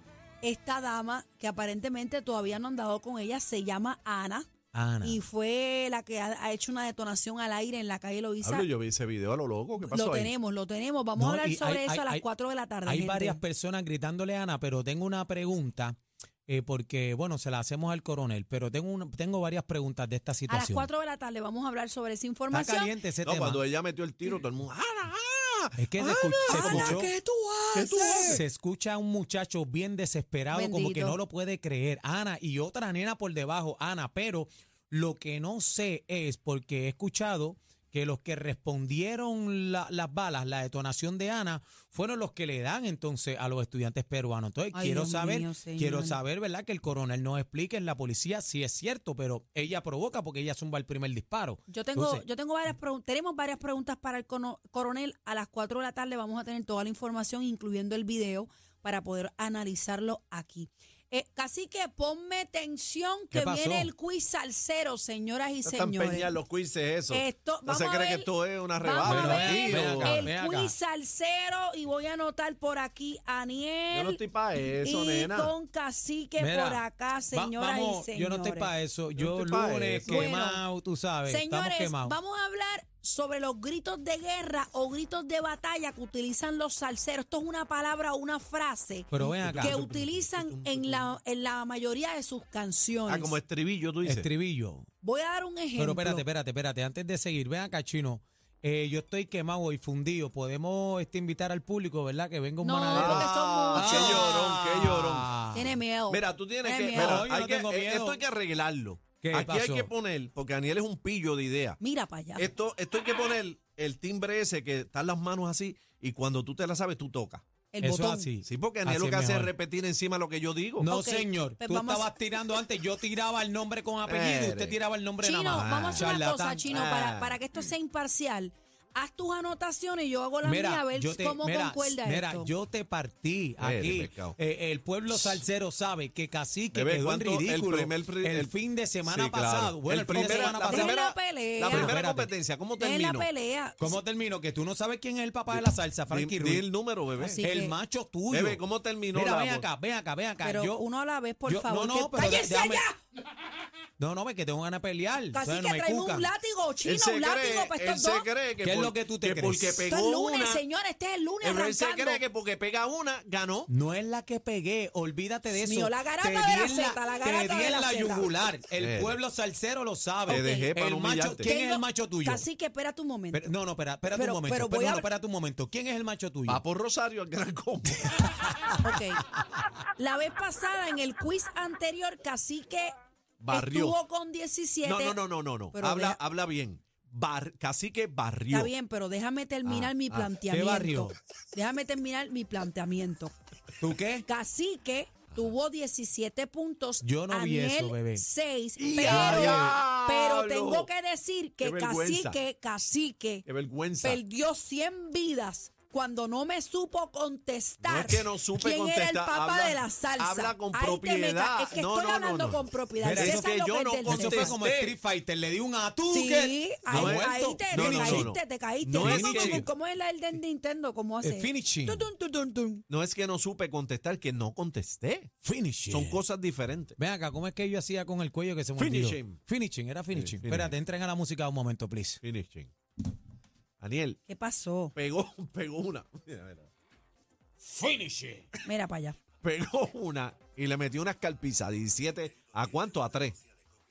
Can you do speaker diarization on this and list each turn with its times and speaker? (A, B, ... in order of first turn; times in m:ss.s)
0:00.4-0:04.5 A
0:04.7-0:05.2 B
0:05.0-0:08.7 A
0:08.4-0:10.3 C
0:09.8-0:13.4 A
0:11.2-0:12.2 B
0:12.8-0:20.9 B
0:20.5-0:23.0 A
0:22.5-0:23.6 B
0:23.2-0:27.1 C
0:25.8-0:27.1 B
0:26.4-0:28.4 A
0:27.7-0:28.4 C
0:28.2-0:52.2 B
0:30.5-0:31.2 A
0:44.7-0:46.2 A
0:51.7-1:06.4 A
1:03.3-1:03.9 B
1:05.6-1:10.3 C
1:07.1-1:14.2 A
1:09.0-1:10.8 B
1:13.9-1:15.5 C
1:14.8-1:18.7 A
1:16.4-1:22.2 B
1:19.2-1:20.3 C
1:20.1-1:20.6 A
1:21.3-1:33.4 A
1:29.1-1:29.8 B
1:29.2-1:31.1 C
1:33.1-1:34.3 C
1:34.0-1:34.9 B
1:35.0-1:36.2 A
1:35.8-1:45.8 B
1:42.6-1:44.5 A
1:42.9-1:45.4 C
1:45.5-1:47.3 A
1:46.1-1:51.8 C
1:46.9-1:48.2 B
1:49.2-1:49.9 B
1:51.8-1:52.5 A
1:52.4-1:57.4 C
1:57.7-1:58.3 A
1:57.8-1:59.5 B
1:58.4-2:00.9 C
2:00.8-2:06.8 B
2:00.9-2:02.1 A
2:04.0-2:04.8 C
2:05.2-2:12.5 A
2:05.5-2:06.2 C
2:06.7-2:07.4 C
2:10.4-2:21.0 B
2:13.6-2:14.4 C
2:15.1-2:15.4 C
2:16.7-2:23.3 C
2:20.1-2:21.9 A
2:21.6-2:22.3 B
2:22.8-2:24.0 A
2:23.8-2:26.7 B
2:25.5-2:27.4 C
2:27.2-2:27.7 A
2:27.3-2:28.6 B
2:28.3-2:29.7 C
2:29.1-2:30.8 B
2:30.4-2:33.0 A
2:31.5-2:32.8 B
2:34.0-2:36.3 B
2:35.3-2:38.3 A
2:36.8-2:40.6 C
2:38.6-2:39.9 B
2:39.9-2:42.2 A
2:41.4-2:43.7 C
2:43.7-2:52.4 B
2:45.5-2:48.3 A
2:48.8-2:49.2 C
2:50.3-2:51.5 C
2:50.3-2:50.7 A
2:51.4-2:53.5 A
2:53.3-2:56.6 B
2:54.1-2:55.1 A
2:56.5-2:58.5 C
2:58.4-2:58.8 B
2:58.8-2:59.2 A
3:00.0-3:03.0 A
3:03.4-3:04.0 C
3:03.5-3:05.2 A
3:04.8-3:08.7 C
3:05.7-3:06.2 A
3:08.5-3:13.3 A
3:09.6-3:10.3 C
3:10.5-3:11.2 B
3:13.8-3:14.2 B
3:14.2-3:23.4 A
3:17.0-3:18.2 B
3:18.8-3:20.9 C
3:19.0-3:19.8 B
3:21.6-3:22.4 C
3:23.4-3:24.2 C
3:24.0-3:34.6 A
3:27.8-3:35.0 C
3:33.0-3:33.5 B
3:34.0-3:38.3 B
3:36.1-3:42.8 A
3:36.9-3:39.7 C
3:38.9-3:39.7 B
3:41.2-3:42.1 B
3:42.9-3:45.3 C
3:45.4-3:46.2 B
3:45.9-3:47.0 C
3:47.0-3:52.2 B
3:48.8-3:49.4 C
3:50.1-3:50.8 C
3:52.2-3:52.7 C
3:53.8-3:54.2 C
3:54.3-3:54.9 A
3:55.0-3:56.7 C
3:57.6-3:58.6 B
3:58.6-3:59.2 A
3:59.4-4:03.4 C